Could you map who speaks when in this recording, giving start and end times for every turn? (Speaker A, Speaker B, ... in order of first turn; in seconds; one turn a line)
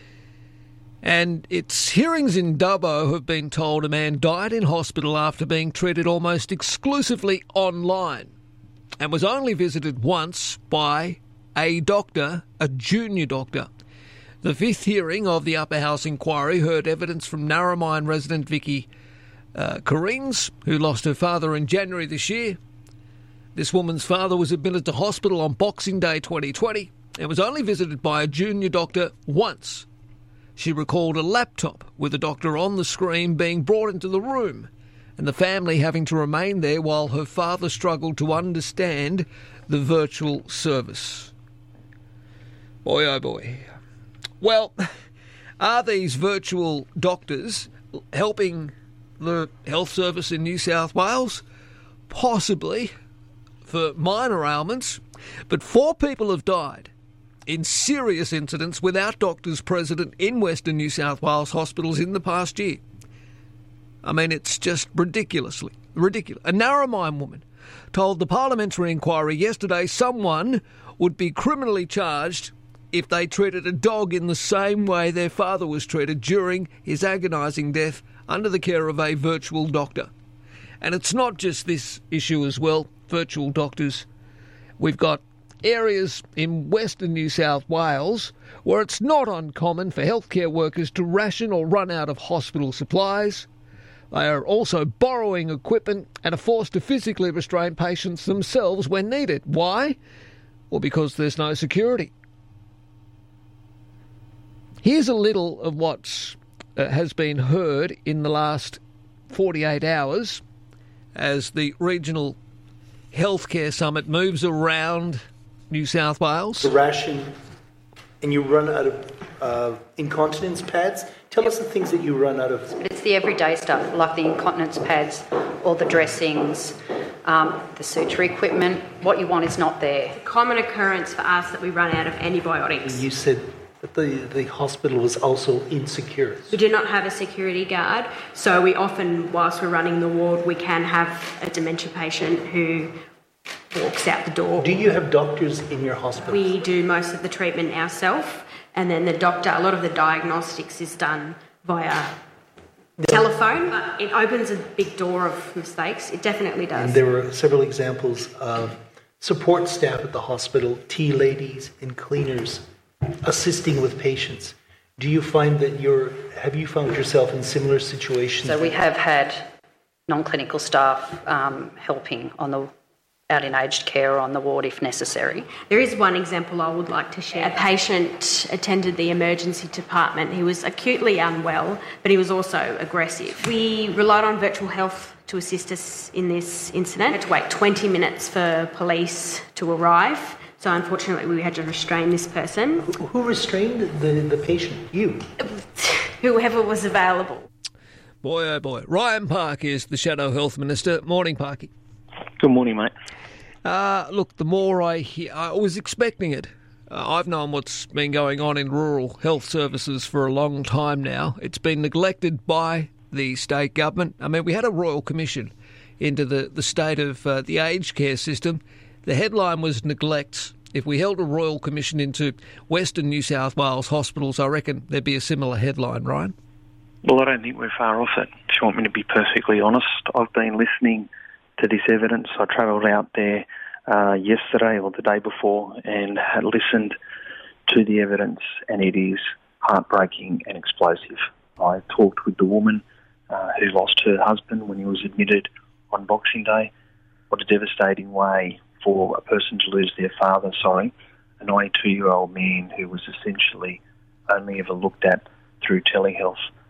Speaker A: 1.0-8.3
Speaker A: 9.0-13.7
Speaker A: 14.4-18.9
Speaker A: 19.6-22.6
Speaker A: 23.6-29.9
Speaker A: 30.6-41.3
Speaker A: 42.8-43.7
Speaker A: 44.4-44.8
Speaker A: 45.6-51.4
Speaker A: 52.1-52.9
Speaker A: 53.6-56.9
Speaker A: 57.5-62.8
Speaker A: 64.0-80.1
Speaker A: 80.8-84.1
Speaker A: 84.8-93.5
Speaker A: 94.1-100.0
Speaker A: 100.7-102.1
Speaker A: 104.8-110.4
Speaker A: 111.2-112.4
Speaker A: 113.1-116.7
Speaker B: 116.6-117.3
Speaker B: 118.2-122.8
Speaker C: 122.8-130.2
Speaker D: 130.2-133.1
Speaker B: 132.8-136.6
Speaker D: 136.5-142.9
Speaker D: 143.7-144.8
Speaker B: 144.6-146.5
Speaker D: 146.3-152.2
Speaker B: 153.0-153.2
Speaker D: 153.1-157.0
Speaker B: 156.7-162.7
Speaker B: 163.2-168.8
Speaker C: 168.4-169.5
Speaker C: 170.1-172.7
Speaker C: 173.3-175.6
Speaker D: 175.6-192.8
Speaker B: 192.8-195.3
Speaker D: 195.4-197.5
Speaker A: 198.2-201.7
Speaker E: 202.4-202.9
Speaker A: 203.6-226.3
Speaker E: 227.0-237.0
Speaker E: 237.7-246.7
Speaker E: 247.3-256.5